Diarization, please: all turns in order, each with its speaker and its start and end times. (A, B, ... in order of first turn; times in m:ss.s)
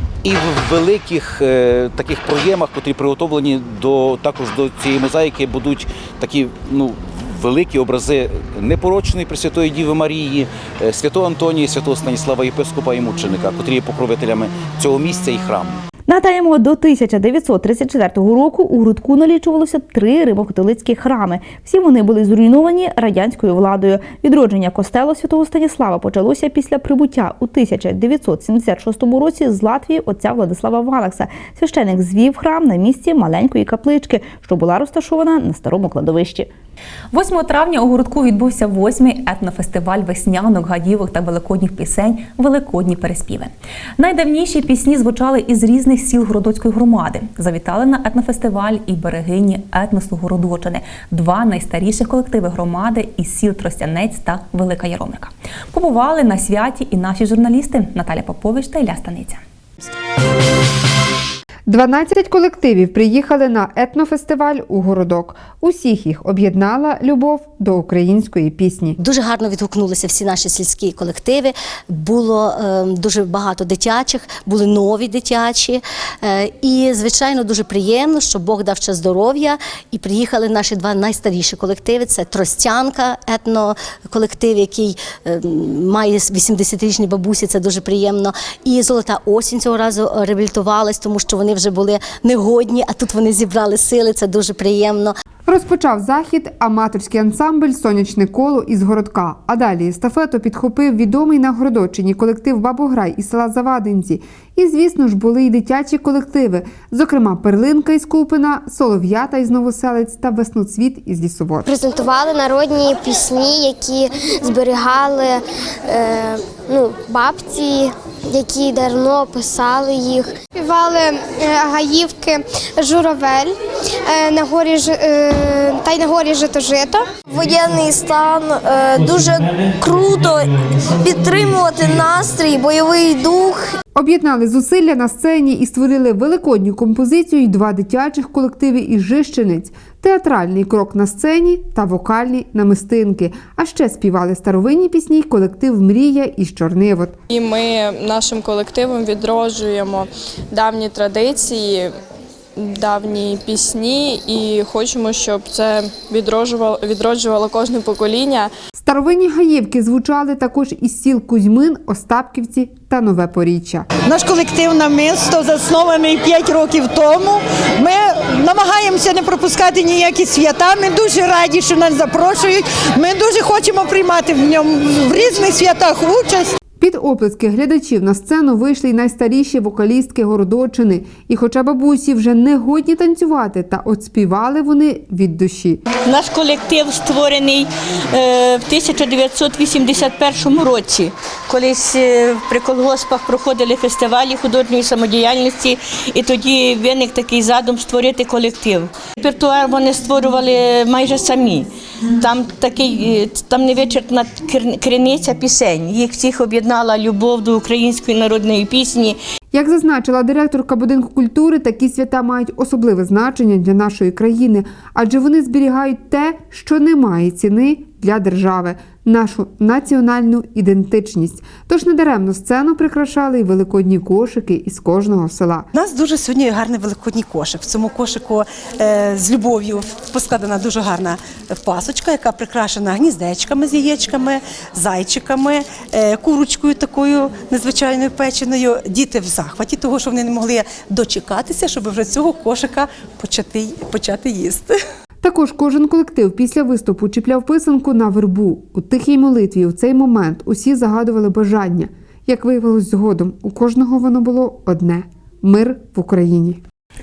0:00.2-0:15.8 A
0:16.1-0:36.5 B
0:37.1-0:59.4 C
1:01.7-1:09.0 D
1:09.0-1:35.2 E
1:35.5-1:51.7 D
1:51.6-2:03.5 F
2:04.0-2:13.7 F
2:13.9-2:27.1 D
2:27.3-2:31.9 G
2:32.6-2:38.5 G
2:38.8-2:43.9 D
2:44.0-2:56.5 H
2:56.8-3:05.8 D
3:06.0-3:29.2 I
3:29.5-3:45.7 D
3:45.7-4:04.7 J
4:05.2-4:16.6 D